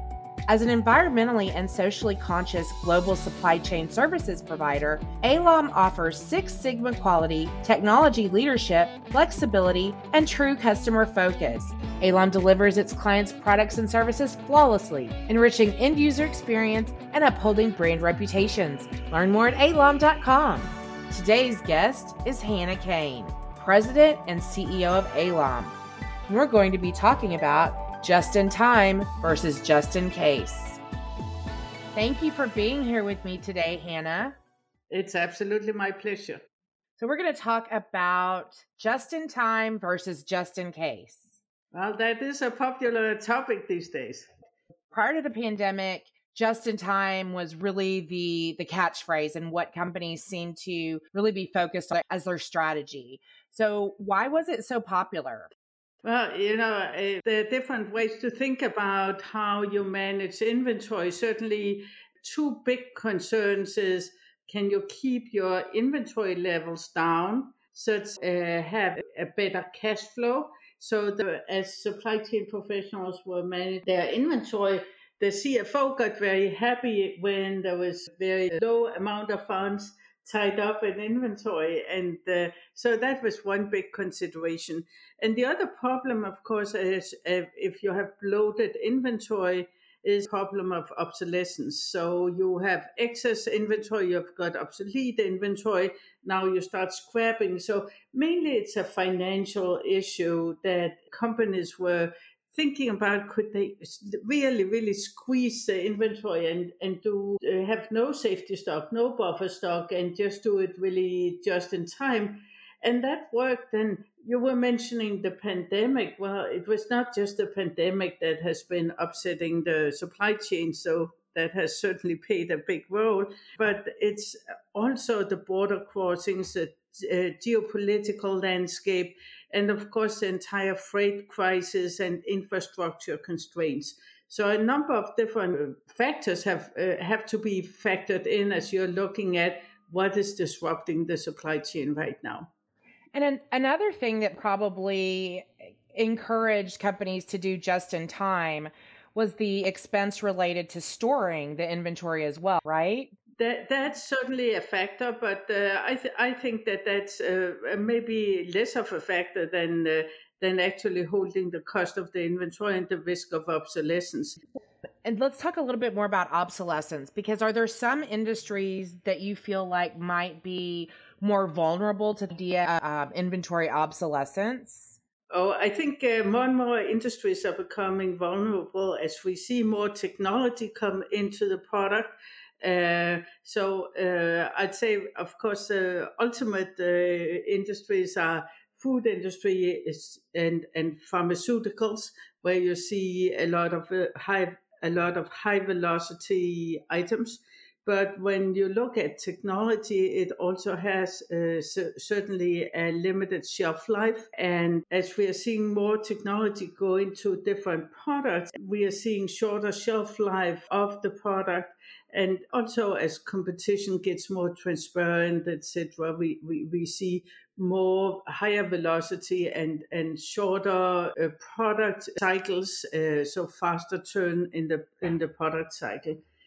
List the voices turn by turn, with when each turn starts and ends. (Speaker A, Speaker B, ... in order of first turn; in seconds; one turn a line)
Speaker A: 0.5-25.8
Speaker A: 26.3-30.8
Speaker A: 31.9-34.4
Speaker B: 34.9-36.4
Speaker A: 37.0-41.4
Speaker B: 41.7-44.3
Speaker A: 44.9-55.5
Speaker B: 56.0-142.5
Speaker A: 143.1-153.1
Speaker B: 153.4-164.4
Speaker A: 165.0-175.0
Speaker B: 175.3-226.2